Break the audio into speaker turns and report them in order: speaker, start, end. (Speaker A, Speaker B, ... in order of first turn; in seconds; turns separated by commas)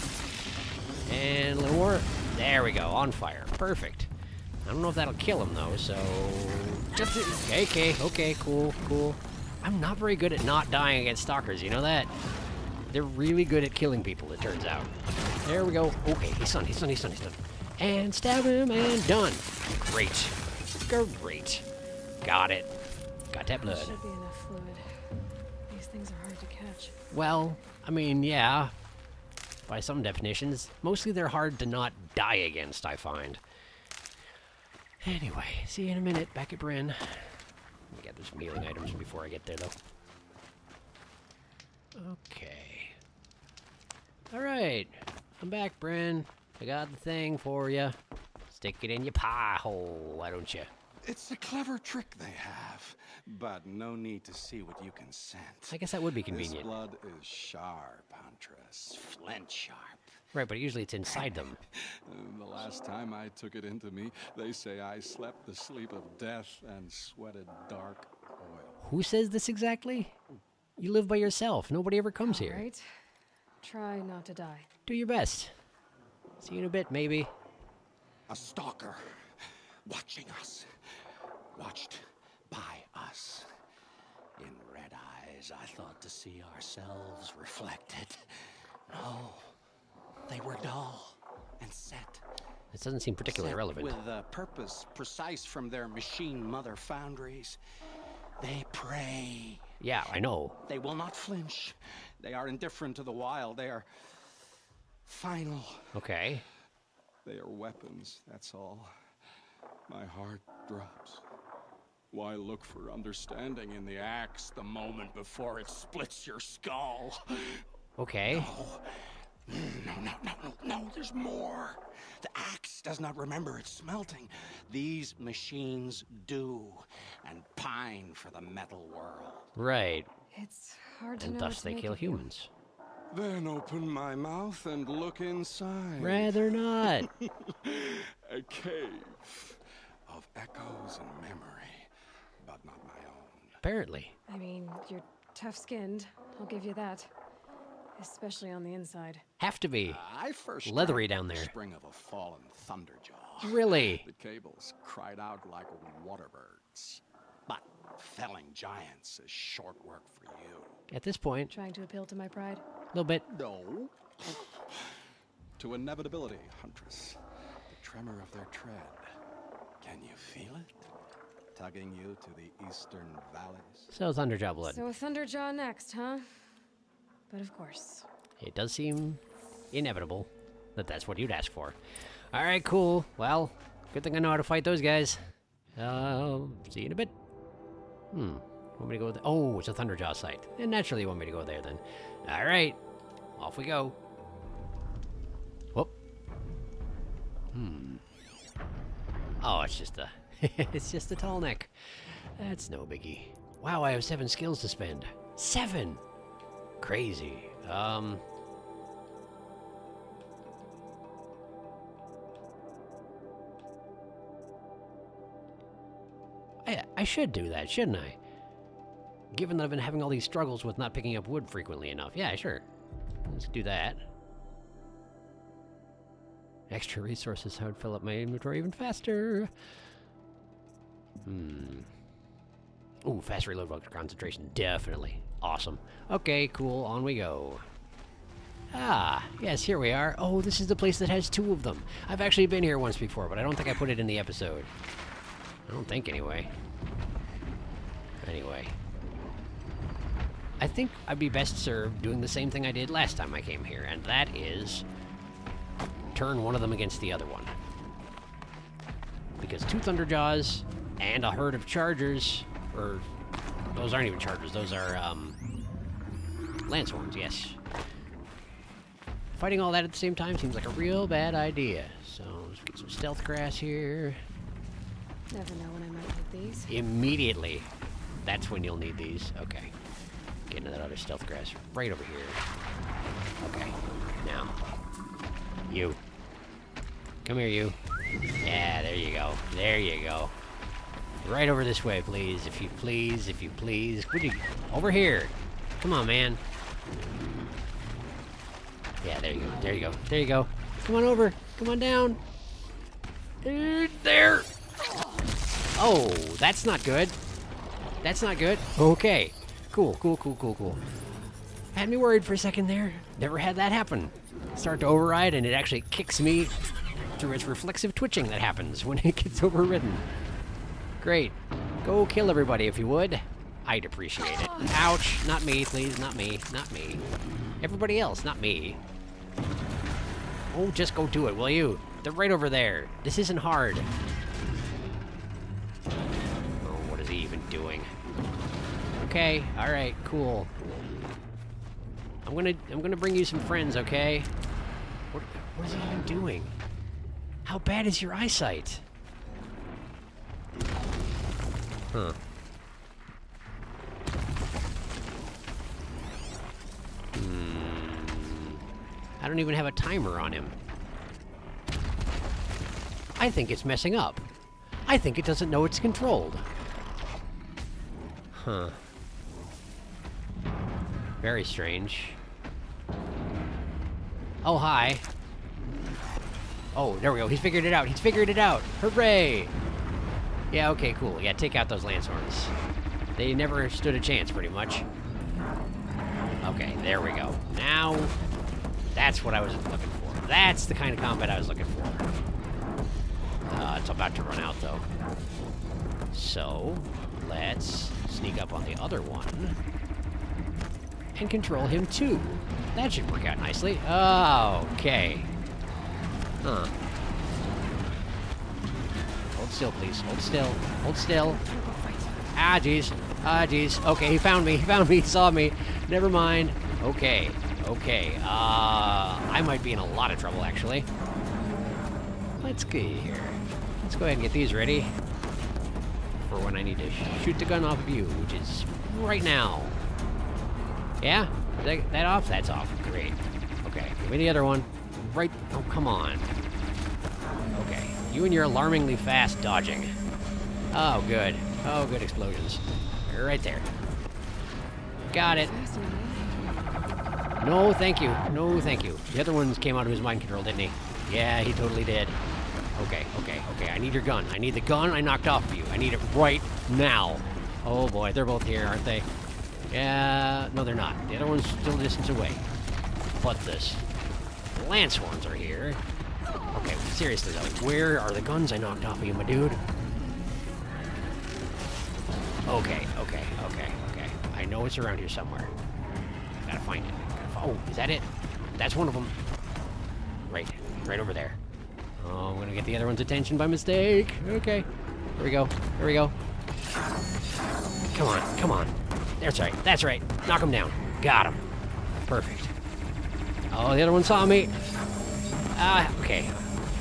Speaker A: 1.1-4.1, Speaker A: 4.6-12.1, Speaker A: 12.9-14.9, Speaker A: 15.4-21.6, Speaker A: 22.2-22.7, Speaker A: 23.3-24.0, Speaker B: 23.6-24.8, Speaker B: 25.7-26.9, Speaker A: 27.1-28.7, Speaker A: 29.6-33.4, Speaker A: 35.0-39.7, Speaker A: 42.0-43.0, Speaker A: 44.3-48.0, Speaker A: 48.5-50.7, Speaker C: 51.0-60.1, Speaker A: 55.7-56.7, Speaker A: 60.3-61.6, Speaker C: 61.1-68.8, Speaker A: 68.8-70.2, Speaker A: 70.8-72.6, Speaker B: 72.2-72.8, Speaker B: 73.6-74.7, Speaker A: 74.9-75.5, Speaker A: 76.4-77.3, Speaker C: 78.3-79.3, Speaker C: 79.8-80.7, Speaker C: 81.5-83.5, Speaker C: 84.4-88.3, Speaker C: 88.9-89.5, Speaker C: 90.3-92.2, Speaker A: 92.7-94.0, Speaker C: 93.2-97.6, Speaker C: 98.4-99.7, Speaker A: 99.8-100.6, Speaker C: 100.7-103.9, Speaker C: 105.0-106.0, Speaker A: 105.9-106.4, Speaker C: 107.2-108.9, Speaker C: 109.9-111.2, Speaker C: 112.1-117.6, Speaker A: 118.0-118.5, Speaker C: 118.3-129.5, Speaker A: 129.6-130.1, Speaker B: 130.3-132.3, Speaker A: 131.2-132.5, Speaker C: 133.1-136.4, Speaker A: 136.0-137.1, Speaker C: 136.9-141.9, Speaker C: 142.4-143.6, Speaker A: 143.6-144.1, Speaker B: 144.3-147.1, Speaker B: 148.0-149.2, Speaker A: 149.4-150.0, Speaker C: 149.8-160.8, Speaker A: 150.6-151.5, Speaker A: 153.4-154.1, Speaker A: 160.9-161.5, Speaker B: 161.5-162.6, Speaker A: 162.9-163.2, Speaker C: 163.3-164.9, Speaker C: 165.6-167.2, Speaker C: 167.7-169.1, Speaker C: 169.8-170.9, Speaker C: 171.5-173.9, Speaker A: 173.9-174.8, Speaker B: 174.6-176.3, Speaker B: 177.3-178.1, Speaker A: 178.4-181.8, Speaker A: 182.3-185.2, Speaker A: 185.8-187.1, Speaker A: 188.1-192.8, Speaker A: 193.4-194.0, Speaker A: 197.5-198.0, Speaker A: 199.4-206.0, Speaker A: 206.8-208.2, Speaker A: 216.6-218.2, Speaker A: 219.3-222.6, Speaker A: 223.2-224.0, Speaker A: 226.7-229.5, Speaker A: 231.2-231.9, Speaker A: 233.0-237.6, Speaker A: 238.7-244.7, Speaker A: 245.7-246.5, Speaker A: 248.2-248.8, Speaker A: 250.6-254.8, Speaker A: 256.1-257.6, Speaker A: 259.4-263.1, Speaker A: 263.7-265.4, Speaker A: 266.6-267.6, Speaker A: 269.3-274.2, Speaker B: 275.3-276.8, Speaker A: 276.7-279.7, Speaker A: 280.5-282.4, Speaker A: 283.4-284.6, Speaker A: 285.7-286.0, Speaker A: 287.2-287.8, Speaker A: 288.4-290.3, Speaker A: 291.2-296.4, Speaker A: 299.0-302.2, Speaker A: 303.4-304.5, Speaker A: 305.8-307.2, Speaker A: 308.0-310.8, Speaker A: 311.7-316.5, Speaker A: 317.2-320.0, Speaker A: 321.0-327.0, Speaker A: 327.6-328.8, Speaker A: 330.5-333.9, Speaker A: 336.6-337.9, Speaker A: 339.0-340.5, Speaker A: 342.2-344.3, Speaker A: 345.1-346.6, Speaker A: 347.4-348.8, Speaker A: 351.9-352.2, Speaker A: 357.1-358.6, Speaker A: 359.2-360.6, Speaker A: 363.2-364.3, Speaker A: 364.8-366.5, Speaker A: 368.3-368.8, Speaker A: 371.2-372.2, Speaker A: 374.4-375.1, Speaker A: 376.7-379.5, Speaker A: 380.5-382.5, Speaker A: 383.1-384.9, Speaker A: 386.4-388.1, Speaker A: 388.9-392.1, Speaker A: 393.5-394.9, Speaker A: 396.1-399.6, Speaker A: 401.1-405.3, Speaker A: 406.4-406.7, Speaker A: 409.3-411.4, Speaker B: 411.4-412.3, Speaker A: 412.3-420.9, Speaker A: 422.4-424.9, Speaker A: 426.3-429.8, Speaker A: 431.0-436.3, Speaker A: 437.5-439.9, Speaker A: 440.7-443.7, Speaker A: 445.1-445.5, Speaker B: 445.3-447.3, Speaker A: 447.4-452.2, Speaker A: 452.7-459.1, Speaker A: 459.7-462.5, Speaker A: 463.2-463.8, Speaker A: 464.5-465.8, Speaker A: 466.5-469.6, Speaker A: 472.4-475.5, Speaker A: 476.4-479.2, Speaker A: 480.3-481.4, Speaker A: 482.0-486.1, Speaker A: 487.9-491.4, Speaker A: 492.1-492.5, Speaker A: 493.5-494.6, Speaker A: 495.5-496.4